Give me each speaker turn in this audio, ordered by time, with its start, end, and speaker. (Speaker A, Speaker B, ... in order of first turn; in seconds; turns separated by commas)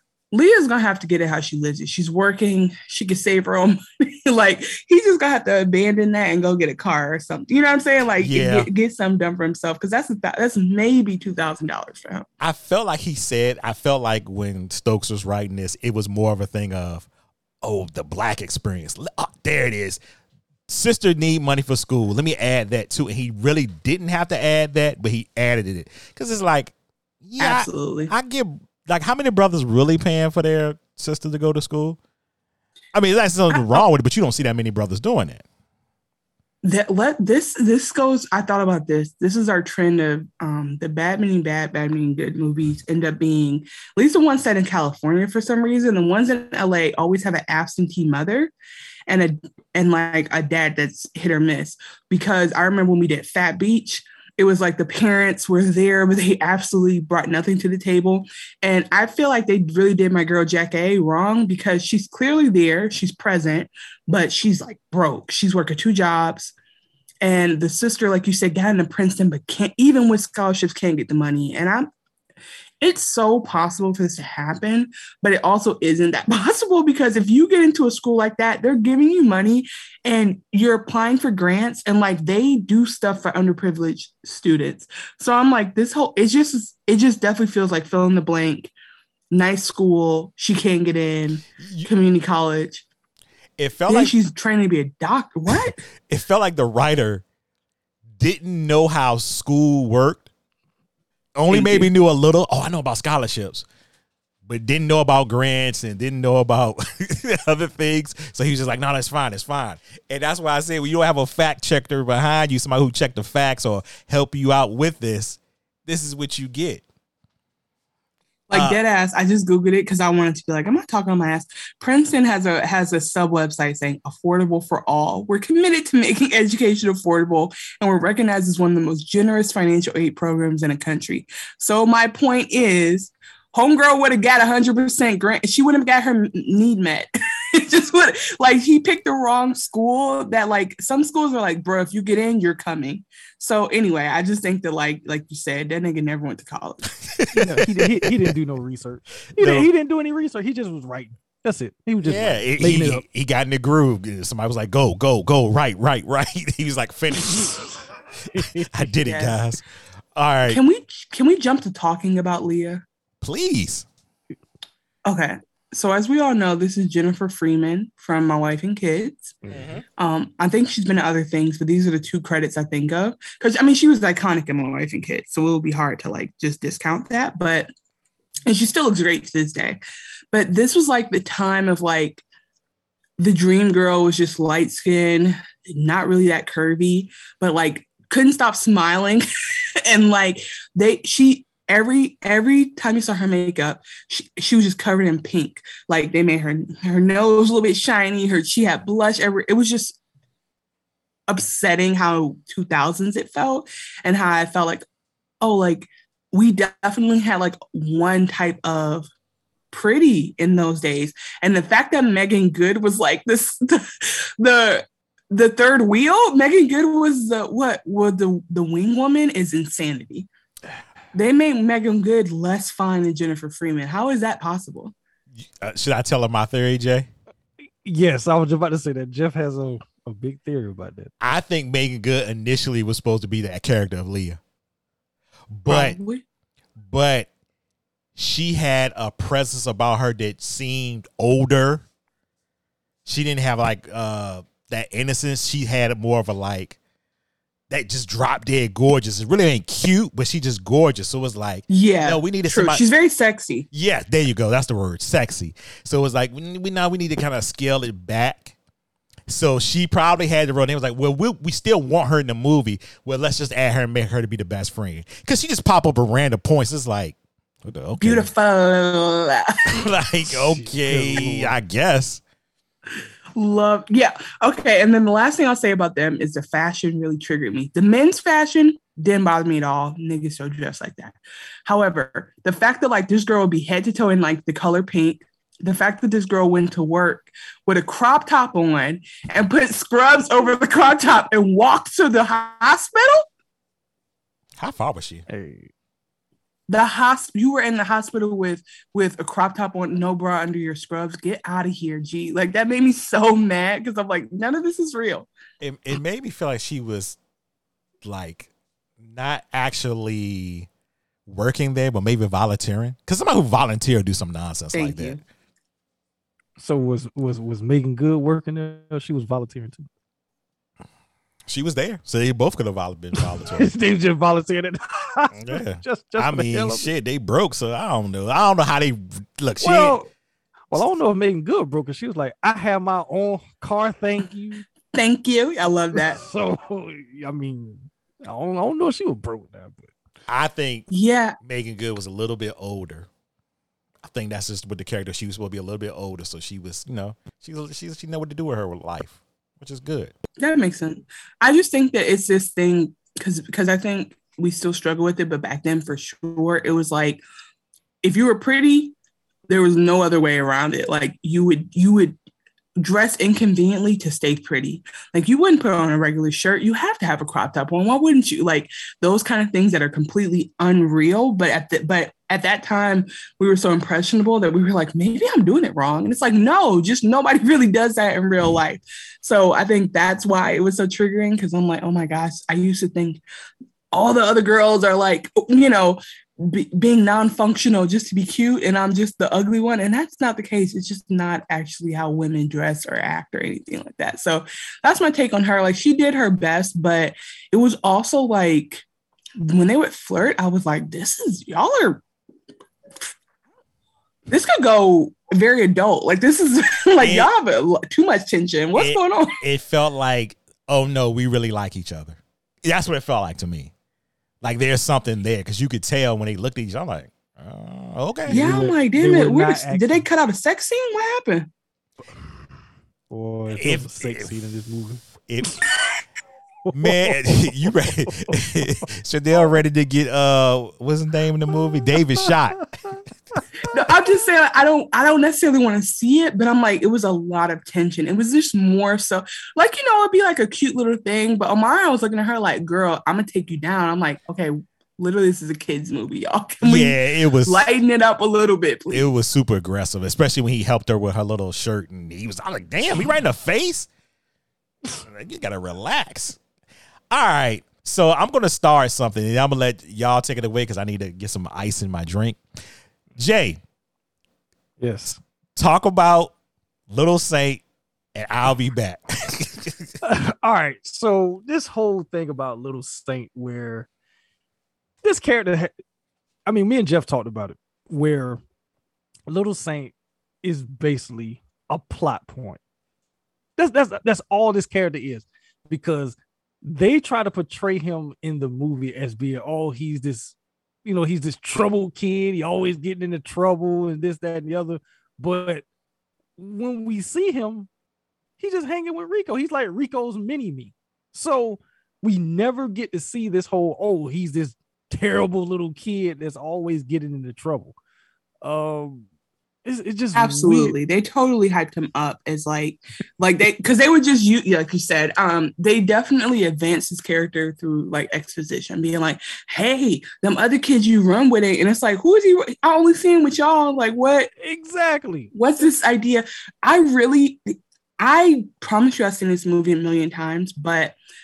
Speaker A: 0.3-12.3, Speaker B: 8.2-8.7, Speaker B: 12.4-17.1, Speaker B: 17.6-20.0, Speaker B: 20.7-32.0, Speaker A: 27.4-28.1, Speaker B: 32.9-35.5, Speaker A: 33.5-33.8, Speaker A: 36.6-48.5, Speaker A: 49.1-66.5, Speaker A: 67.2-71.9, Speaker A: 72.8-88.7, Speaker A: 89.3-92.8, Speaker B: 91.6-91.9, Speaker B: 93.6-94.2, Speaker A: 93.9-95.8, Speaker B: 95.5-97.2, Speaker B: 98.2-100.3, Speaker B: 101.4-103.7, Speaker A: 101.5-101.9, Speaker B: 104.5-116.8, Speaker A: 118.5-146.9, Speaker B: 118.5-118.8, Speaker B: 147.2-148.1, Speaker C: 147.3-153.1, Speaker B: 149.4-149.7, Speaker B: 152.0-157.7, Speaker C: 157.2-158.9, Speaker B: 158.3-159.6, Speaker A: 159.0-159.4, Speaker B: 160.2-160.6, Speaker A: 160.5-162.8, Speaker B: 163.2-163.9, Speaker A: 165.1-169.4, Speaker B: 169.5-169.8, Speaker A: 170.0-177.7, Speaker A: 178.5-179.8, Speaker A: 180.3-182.2, Speaker A: 183.2-189.3, Speaker A: 189.9-200.0, Speaker A: 201.3-204.9, Speaker A: 205.4-209.1, Speaker A: 209.7-220.3, Speaker A: 221.1-224.9, Speaker B: 225.3-227.1, Speaker C: 227.8-231.1, Speaker B: 231.2-234.4, Speaker B: 235.5-236.0, Speaker A: 235.7-236.2, Speaker B: 236.8-237.3, Speaker B: 238.2-241.8, Speaker B: 243.1-246.8, Speaker B: 247.7-252.8, Speaker A: 251.7-253.7, Speaker B: 253.7-258.6, Speaker B: 259.3-268.3, Speaker A: 268.0-269.9, Speaker B: 269.7-272.2, Speaker C: 270.5-271.6, Speaker A: 273.4-293.2, Speaker B: 294.6-295.2, Speaker C: 295.3-295.7, Speaker A: 296.7-305.3, Speaker B: 305.6-307.2, Speaker B: 308.0-310.7, Speaker B: 311.3-315.2, Speaker A: 314.7-315.2, Speaker C: 316.6-319.9, Speaker B: 321.5-323.7, Speaker C: 323.2-326.9, Speaker B: 325.3-330.0, Speaker C: 329.6-330.1, Speaker C: 330.7-334.7, Speaker A: 334.9-336.2, Speaker C: 335.9-339.9, Speaker B: 340.3-340.9, Speaker A: 340.9-341.4, Speaker B: 341.4-343.1, Speaker B: 344.0-350.1, Speaker A: 350.4-357.2, Speaker A: 358.0-358.9, Speaker A: 359.5-362.2, Speaker A: 362.8-383.2, Speaker A: 383.9-398.8, Speaker A: 399.4-402.0, Speaker A: 404.3-409.4, Speaker B: 407.0-407.3, Speaker B: 408.7-413.7, Speaker B: 414.4-418.5, Speaker C: 418.3-420.1, Speaker A: 418.3-421.5, Speaker C: 423.1-425.7, Speaker B: 423.5-424.3, Speaker B: 425.2-425.6, Speaker C: 426.7-428.8, Speaker B: 426.7-432.7, Speaker C: 432.6-433.4, Speaker A: 433.7-449.1, Speaker B: 446.6-447.7, Speaker B: 448.9-453.9, Speaker B: 455.0-456.4, Speaker B: 457.1-462.4, Speaker B: 463.2-463.6, Speaker C: 464.8-465.2, Speaker B: 465.6-466.3, Speaker B: 466.9-467.6, Speaker B: 468.1-469.9, Speaker C: 470.0-473.9, Speaker C: 475.0-475.7, Speaker C: 476.5-478.4, Speaker C: 479.3-482.6, Speaker C: 483.6-495.6, Speaker C: 496.4-497.7, Speaker C: 498.4-507.8, Speaker C: 508.4-509.1, Speaker C: 509.6-510.8, Speaker A: 510.1-524.3, Speaker C: 524.4-525.3, Speaker A: 525.3-531.0